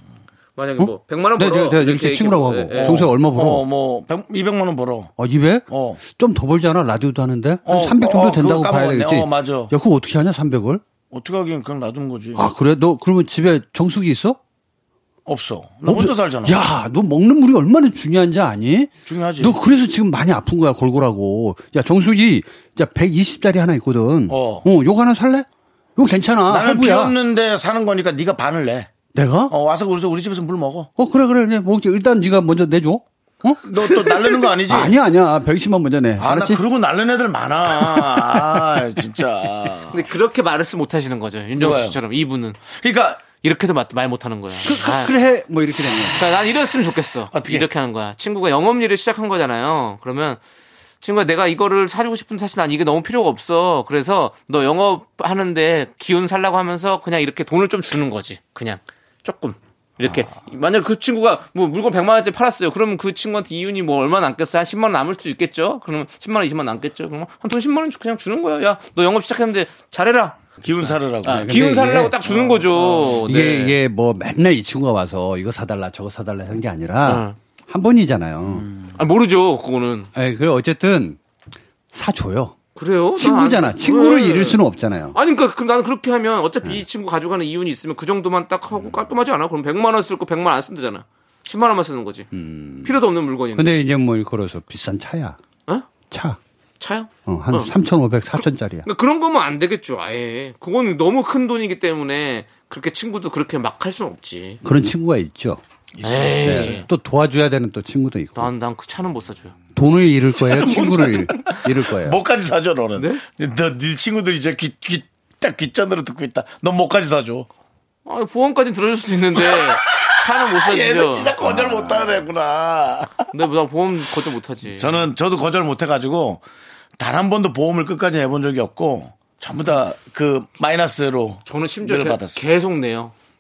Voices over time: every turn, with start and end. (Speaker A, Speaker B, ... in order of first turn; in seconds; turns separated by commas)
Speaker A: 0.6-3.1, Speaker B: 0.8-3.7, Speaker C: 2.8-5.1, Speaker B: 5.2-10.8, Speaker C: 5.7-6.0, Speaker C: 7.7-9.7, Speaker C: 11.1-12.5, Speaker B: 12.4-14.4, Speaker C: 15.3-16.6, Speaker B: 15.8-27.1, Speaker C: 19.1-19.6, Speaker C: 24.3-24.7, Speaker C: 26.5-28.9, Speaker B: 29.1-29.5, Speaker C: 29.5-30.9, Speaker B: 31.0-33.6, Speaker C: 33.6-35.0, Speaker A: 33.8-34.4, Speaker B: 34.7-36.6, Speaker C: 36.2-40.0, Speaker A: 39.9-42.6, Speaker C: 41.6-42.0, Speaker C: 42.7-43.2, Speaker A: 43.4-45.1, Speaker B: 44.6-46.2, Speaker A: 46.1-50.4, Speaker C: 47.3-47.7, Speaker A: 51.0-73.8, Speaker C: 70.6-71.5, Speaker B: 71.3-72.2, Speaker C: 72.3-73.2, Speaker B: 73.2-78.7, Speaker A: 77.0-77.4, Speaker A: 79.0-80.1, Speaker B: 80.2-81.2, Speaker B: 81.9-82.6, Speaker A: 82.8-84.6, Speaker B: 83.2-85.2, Speaker A: 85.1-92.3, Speaker B: 92.3-93.0, Speaker A: 92.8-93.8, Speaker B: 93.5-95.4, Speaker B: 96.1-96.4, Speaker A: 96.8-97.7, Speaker B: 97.3-98.9, Speaker A: 98.4-104.6, Speaker B: 104.6-105.6, Speaker C: 106.0-106.8, Speaker A: 106.0-106.9, Speaker B: 106.4-108.5, Speaker A: 108.4-109.5, Speaker B: 109.8-112.2, Speaker C: 110.4-117.5, Speaker A: 113.0-113.2, Speaker A: 118.1-121.9, Speaker C: 119.4-123.3, Speaker A: 123.3-125.1, Speaker C: 124.7-126.4, Speaker C: 127.0-132.4, Speaker A: 131.5-133.1